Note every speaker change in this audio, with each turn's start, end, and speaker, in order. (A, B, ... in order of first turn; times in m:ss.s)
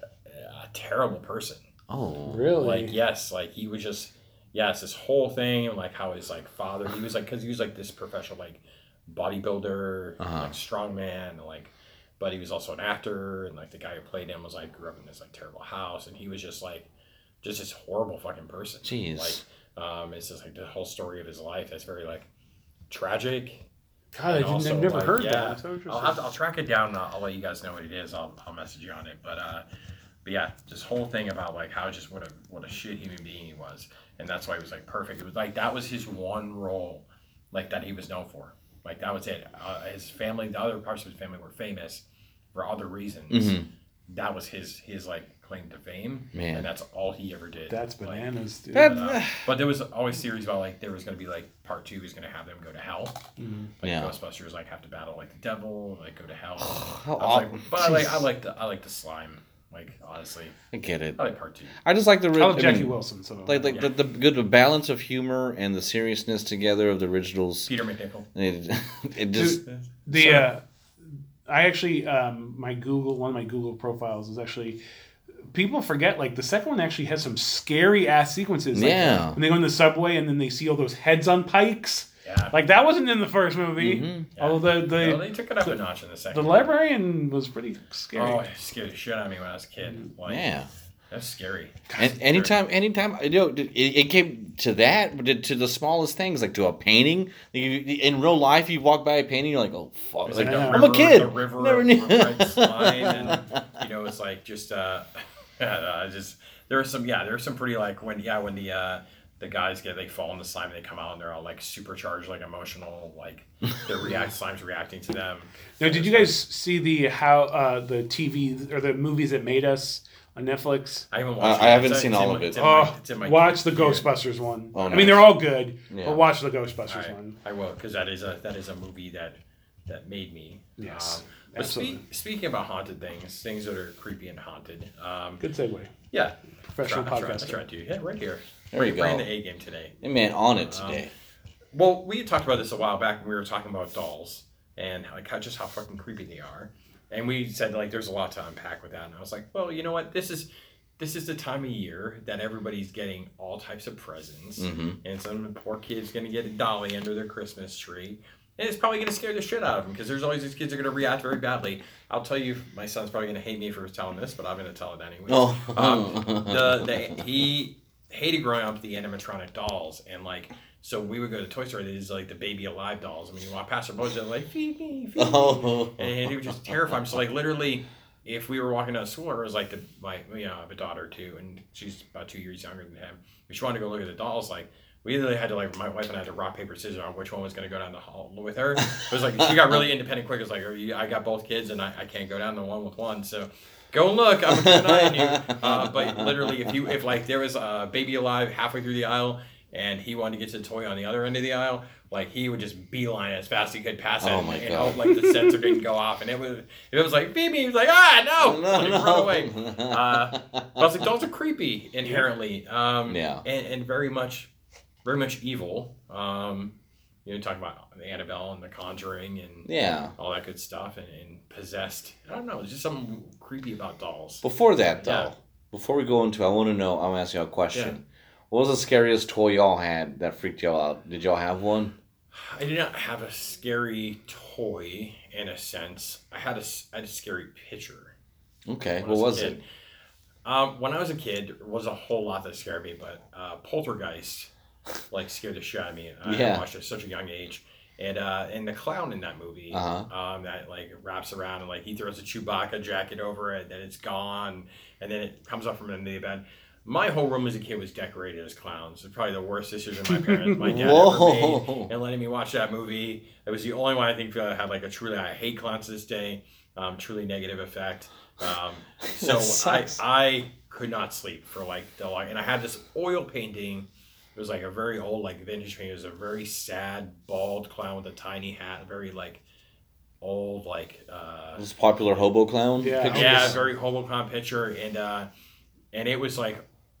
0:00.2-0:01.6 A
0:01.9-0:02.5 B
0:02.3-0:03.0 C
0:02.6-0:16.9 A
0:10.2-0:10.5 B
0:17.4-0:22.3 A
0:18.8-0:19.4 B
0:22.9-0:23.7 A
0:24.1-0:26.2 C
0:24.3-0:29.6 A
0:30.2-0:53.2 A
0:43.3-0:43.7 B
0:46.3-0:46.6 B
0:47.7-0:49.0 C
0:48.7-0:49.5 B
0:53.4-0:53.7 C
0:53.8-1:00.6 A
0:53.8-0:54.1 B
0:56.6-0:58.0 B
1:00.7-1:01.2 B
1:01.2-1:01.8 A
1:01.8-1:07.7 B
1:02.4-1:03.8 C
1:03.7-1:04.0 A
1:07.7-1:08.2 A
1:08.3-1:09.6 B
1:09.3-1:10.6 C
1:09.6-1:10.5 A
1:11.4-1:14.8 C
1:15.5-1:25.8 C
1:18.7-1:19.4 B
1:22.2-1:22.5 A
1:23.8-1:24.3 B
1:24.4-1:26.7 A
1:26.3-1:28.5 C
1:28.1-1:30.5 A
1:30.3-1:30.7 B
1:31.1-1:32.5 A
1:31.9-1:32.1 C
1:32.0-1:43.6 B
1:40.2-1:56.3 A
1:40.3-1:40.9 C
1:55.8-2:01.1 C
2:01.1-2:04.1 A
2:01.4-2:02.6 B
2:02.6-2:07.4 C
2:04.7-2:05.2 B
2:04.8-2:05.2 A
2:05.9-2:06.2 B
2:06.9-2:15.4 A
2:10.8-2:12.0 C
2:15.4-2:15.9 C
2:16.1-2:20.0 A
2:16.7-2:17.6 C
2:18.7-2:19.3 B
2:20.0-2:21.1 B
2:20.5-2:21.0 A
2:21.7-3:34.5 A
2:34.6-2:35.0 B
2:45.3-2:46.9 B
2:55.2-2:56.3 B
3:14.5-3:16.8 B
3:24.2-3:25.0 B
3:28.4-3:30.6 B
3:33.1-3:33.4 B
3:35.0-3:36.7 A
3:37.2-3:45.3 A
3:39.6-3:40.1 B
3:44.4-3:52.0 B
3:52.3-3:58.2 A
3:58.7-3:59.6 B
3:59.0-3:59.6 A
4:00.4-4:04.5 A
4:05.1-4:39.4 A
4:06.2-4:06.6 B
4:09.7-4:10.1 B
4:20.1-4:20.5 C
4:20.6-4:21.9 B
4:29.2-4:29.9 B
4:40.2-4:41.6 A
4:41.6-4:43.6 B
4:42.8-4:43.5 C
4:43.1-4:45.3 A
4:45.9-4:46.6 A